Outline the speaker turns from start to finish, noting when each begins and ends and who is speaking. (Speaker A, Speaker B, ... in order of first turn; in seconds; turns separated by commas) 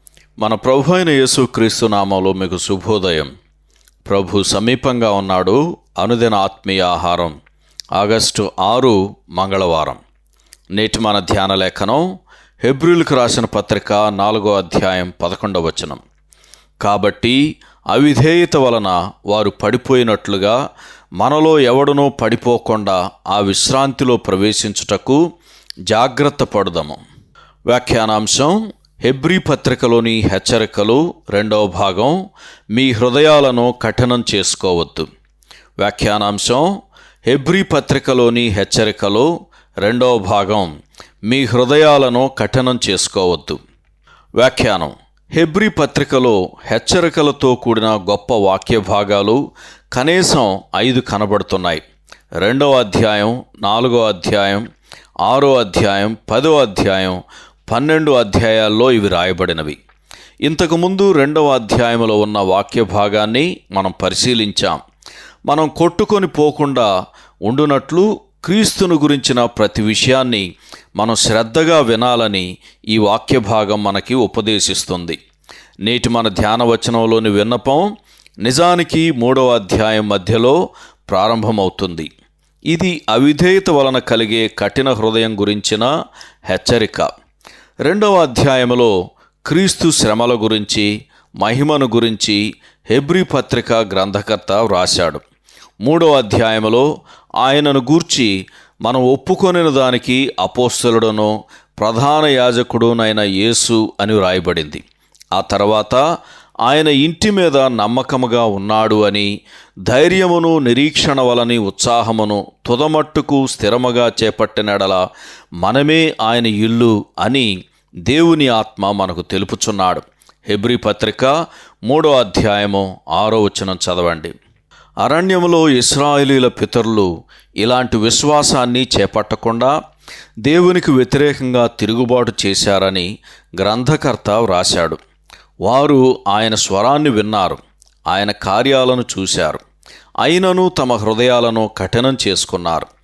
Speaker A: 0.4-3.3, Speaker A: 4.0-7.3, Speaker A: 8.0-10.0, Speaker A: 10.8-12.0, Speaker A: 12.6-16.0, Speaker A: 16.8-17.4, Speaker A: 17.9-20.6, Speaker A: 21.2-25.2, Speaker A: 25.9-27.0, Speaker A: 27.7-32.2, Speaker A: 32.7-35.1, Speaker A: 35.8-36.7, Speaker A: 37.2-39.3, Speaker A: 39.8-40.7, Speaker A: 41.3-43.6, Speaker A: 44.4-49.4, Speaker A: 49.9-51.8, Speaker A: 52.4-54.6, Speaker A: 55.2-59.8, Speaker A: 60.5-64.8, Speaker A: 65.5-66.9, Speaker A: 67.5-70.4, Speaker A: 71.0-75.2, Speaker A: 75.8-77.8, Speaker A: 78.4-80.6, Speaker A: 81.1-82.1, Speaker A: 82.7-85.9, Speaker A: 86.5-87.1, Speaker A: 87.8-88.9, Speaker A: 89.5-90.9, Speaker A: 91.4-92.4, Speaker A: 92.9-95.2, Speaker A: 95.8-96.9, Speaker A: 97.4-98.3, Speaker A: 98.8-104.8, Speaker A: 105.3-106.0, Speaker A: 106.7-109.3, Speaker A: 109.9-115.0, Speaker A: 115.6-117.5, Speaker A: 118.1-121.3, Speaker A: 121.9-124.3, Speaker A: 125.0-127.1, Speaker A: 127.6-129.7, Speaker A: 130.4-135.0, Speaker A: 135.7-139.6, Speaker A: 140.2-142.9